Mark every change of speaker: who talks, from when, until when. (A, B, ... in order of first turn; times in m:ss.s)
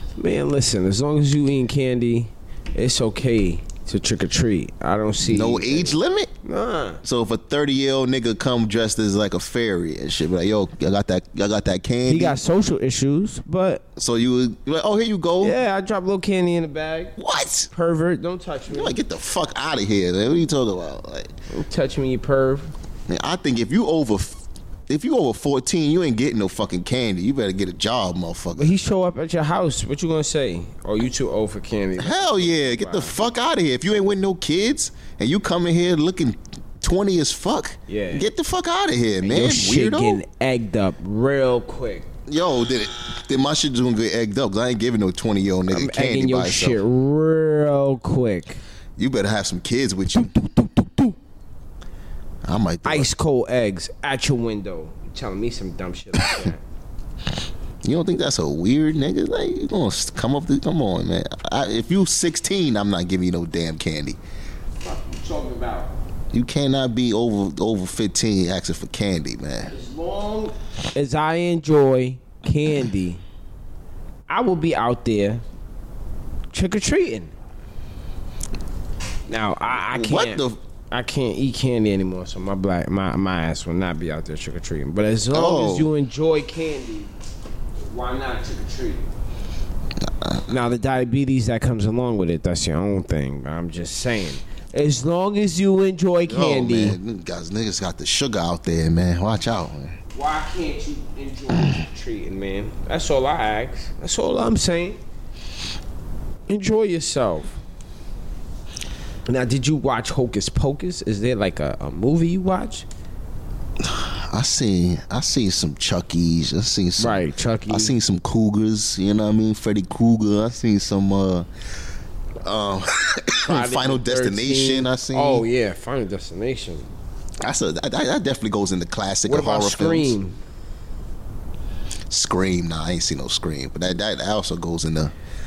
0:00.2-0:07.0 A
0:05.2-0:06.3 B
0:07.0-0:12.4 B
0:12.0-0:13.8 A
0:14.0-0:15.6 B
0:15.4-0:17.1 A
0:17.2-0:17.7 B
0:17.7-0:19.0 A
0:18.7-0:21.3 B
0:21.5-0:22.7 A
0:23.1-0:28.8 B
0:28.5-0:33.2 A
0:32.0-0:40.2 B
0:37.9-0:38.3 A
0:39.2-0:42.1 A
0:42.3-0:46.8 B
0:45.7-0:48.6 A
0:49.0-0:50.3 B
0:50.2-0:51.1 A
0:52.4-0:53.1 B
0:52.8-0:56.6 A
0:57.8-1:04.2 B
1:04.8-1:05.9 A
1:06.3-1:09.7 B
1:09.7-1:13.2 A
1:14.3-1:15.4 A
1:16.5-1:17.3 A
1:19.3-1:27.1 A
1:19.9-1:20.6 B
1:25.3-1:25.9 B
1:27.9-1:29.1 A
1:30.0-1:30.5 B
1:30.5-1:37.0 A
1:36.3-1:40.0 B
1:40.1-1:45.0 A
1:46.5-1:47.6 A
1:49.3-1:52.9 A
1:53.8-2:01.5 B
1:57.0-1:58.0 A
2:02.4-2:05.4 B
2:03.4-2:06.9 A
2:07.4-2:10.2 B
2:09.2-2:10.4 A
2:12.1-2:15.1 B